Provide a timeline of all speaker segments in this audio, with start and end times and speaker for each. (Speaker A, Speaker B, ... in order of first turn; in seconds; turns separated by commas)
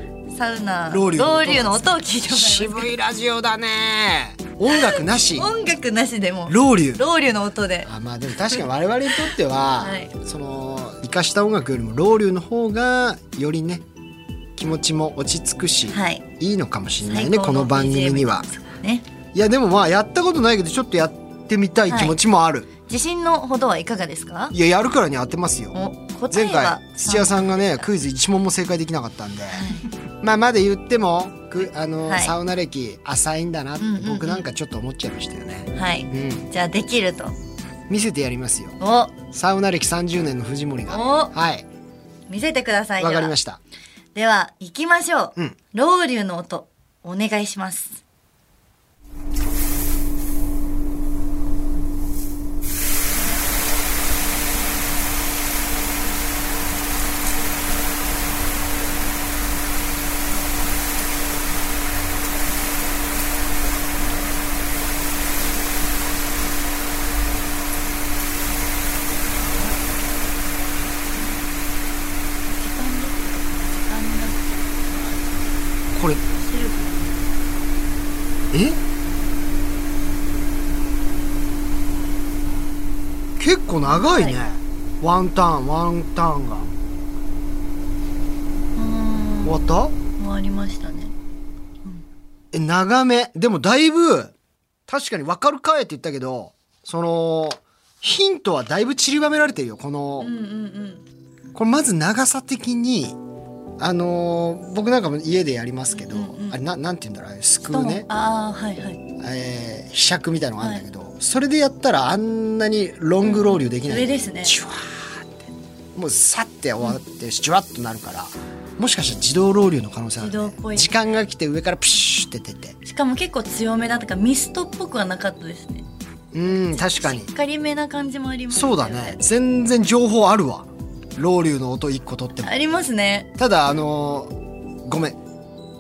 Speaker A: 0.3-2.9, Speaker B: 0.9-5.5, Speaker A: 4.7-7.9, Speaker B: 6.5-7.0, Speaker B: 7.9-13.8, Speaker A: 9.8-10.1, Speaker B: 14.6-18.5, Speaker A: 15.9-16.2, Speaker A: 17.0-19.1, Speaker B: 19.3-22.7, Speaker A: 21.9-22.2, Speaker A: 22.9-24.5, Speaker B: 24.5-25.8, Speaker A: 25.7-27.9, Speaker B: 26.3-29.7, Speaker A: 29.5-29.9, Speaker B: 30.2-36.5, Speaker A: 32.1-32.4, Speaker A: 33.8-34.5, Speaker A: 35.7-37.4, Speaker B: 37.9-38.8, Speaker A: 38.8-39.2, Speaker B: 39.3-41.7, Speaker A: 40.9-41.3, Speaker A: 42.3-43.4, Speaker B: 43.0-43.6, Speaker A: 44.1-48.0, Speaker B: 69.4-69.9, Speaker A: 71.2-71.5, Speaker A: 72.5-74.9, Speaker B: 75.9-76.2, Speaker A: 76.2-77.2, Speaker B: 78.5-78.8, Speaker B: 83.4-86.7, Speaker A: 83.9-84.4, Speaker A: 88.8-89.6, Speaker B: 89.4-90.0, Speaker A: 90.2-91.1, Speaker B: 92.5-94.3, Speaker B: 94.9-100.3, Speaker A: 100.2-101.0, Speaker B: 101.5-103.2, Speaker B: 103.8-108.1, Speaker A: 105.9-106.6, Speaker A: 107.7-109.0, Speaker B: 109.2-115.3, Speaker A: 113.2-114.6, Speaker B: 116.0-122.8, Speaker A: 120.2-121.2, Speaker A: 122.8-125.8, Speaker B: 126.3-127.3, Speaker A: 126.5-129.2, Speaker B: 128.5-132.5, Speaker A: 132.4-133.3, Speaker B: 133.4-135.2